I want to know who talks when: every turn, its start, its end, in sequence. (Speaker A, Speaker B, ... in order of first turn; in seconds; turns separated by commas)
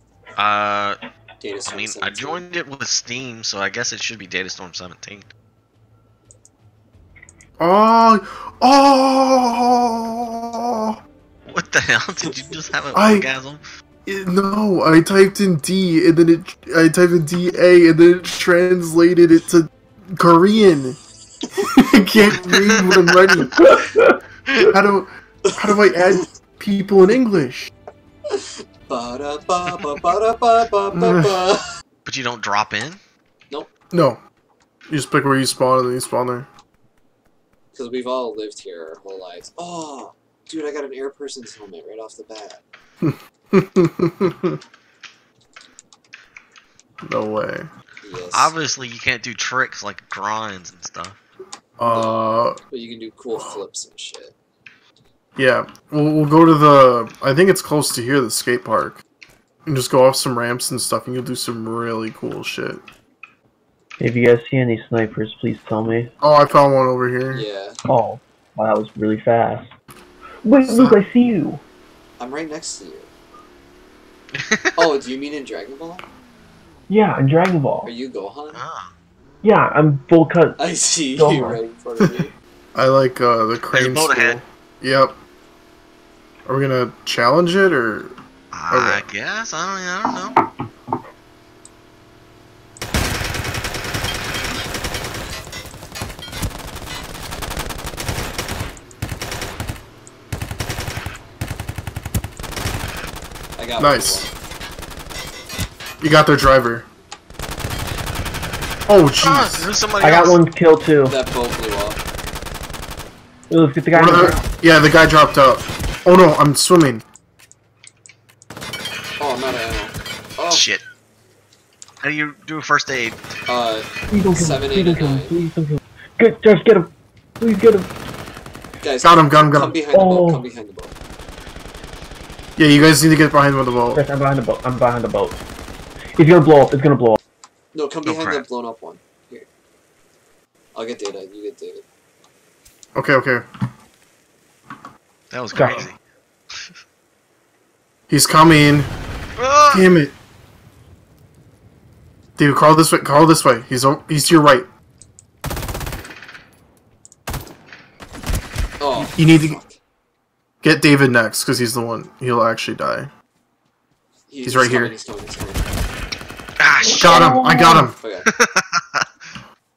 Speaker A: 0.4-1.0, Speaker B: 1.4-2.5, Speaker A: 1.7-5.3, Speaker C: 7.6-11.0, Speaker A: 11.5-13.6, Speaker C: 12.9-13.3, Speaker C: 14.1-21.0, Speaker C: 21.6-23.5, Speaker A: 22.6-23.8, Speaker D: 23.4-24.6, Speaker C: 24.6-27.7, Speaker B: 25.5-26.2, Speaker B: 28.3-31.6, Speaker C: 30.9-31.4, Speaker A: 32.1-33.0, Speaker C: 33.9-34.2, Speaker C: 34.9-36.5, Speaker B: 37.7-42.6, Speaker C: 43.0-44.6, Speaker C: 47.0-47.7, Speaker B: 48.0-48.6, Speaker A: 48.3-51.2, Speaker C: 51.8-52.6, Speaker B: 51.9-54.4, Speaker C: 55.4-59.0, Speaker C: 59.6-62.8, Speaker D: 64.0-66.1, Speaker C: 66.2-67.5, Speaker B: 67.3-67.8, Speaker D: 67.9-69.7, Speaker D: 70.4-71.6, Speaker C: 70.7-71.0, Speaker B: 72.2-73.1, Speaker A: 74.3-74.8, Speaker B: 74.8-76.0, Speaker D: 76.9-77.9, Speaker B: 77.8-78.6, Speaker A: 78.5-78.9, Speaker D: 79.4-80.6, Speaker B: 80.6-82.3, Speaker D: 81.2-81.6, Speaker C: 82.8-85.2, Speaker A: 83.7-84.4, Speaker C: 86.5-88.1, Speaker A: 88.5-90.4, Speaker C: 88.7-89.0, Speaker B: 103.6-104.3, Speaker C: 103.8-104.3, Speaker C: 106.0-106.9, Speaker C: 108.9-109.7, Speaker A: 109.2-110.4, Speaker D: 110.0-111.2, Speaker B: 111.1-112.0, Speaker D: 113.5-114.4, Speaker C: 113.9-117.0, Speaker B: 119.2-120.7, Speaker A: 120.5-120.8, Speaker A: 122.0-123.2, Speaker B: 123.5-125.3, Speaker D: 124.1-127.9, Speaker B: 128.8-130.9, Speaker C: 129.0-129.8, Speaker D: 129.9-130.5, Speaker C: 132.6-134.0, Speaker D: 133.9-135.4, Speaker D: 136.2-137.2, Speaker B: 137.7-139.5, Speaker A: 138.1-138.4, Speaker B: 140.8-141.8, Speaker C: 142.9-143.4, Speaker A: 145.3-146.0, Speaker D: 145.6-145.9, Speaker C: 148.1-148.9, Speaker A: 149.4-149.8, Speaker C: 149.7-150.1, Speaker C: 152.4-154.7, Speaker B: 158.8-159.8, Speaker C: 159.1-159.6, Speaker C: 160.6-163.1, Speaker B: 164.3-165.7, Speaker C: 164.4-165.0, Speaker A: 166.6-167.3, Speaker D: 166.9-167.9, Speaker C: 167.1-168.0, Speaker B: 168.0-168.3, Speaker A: 168.3-169.1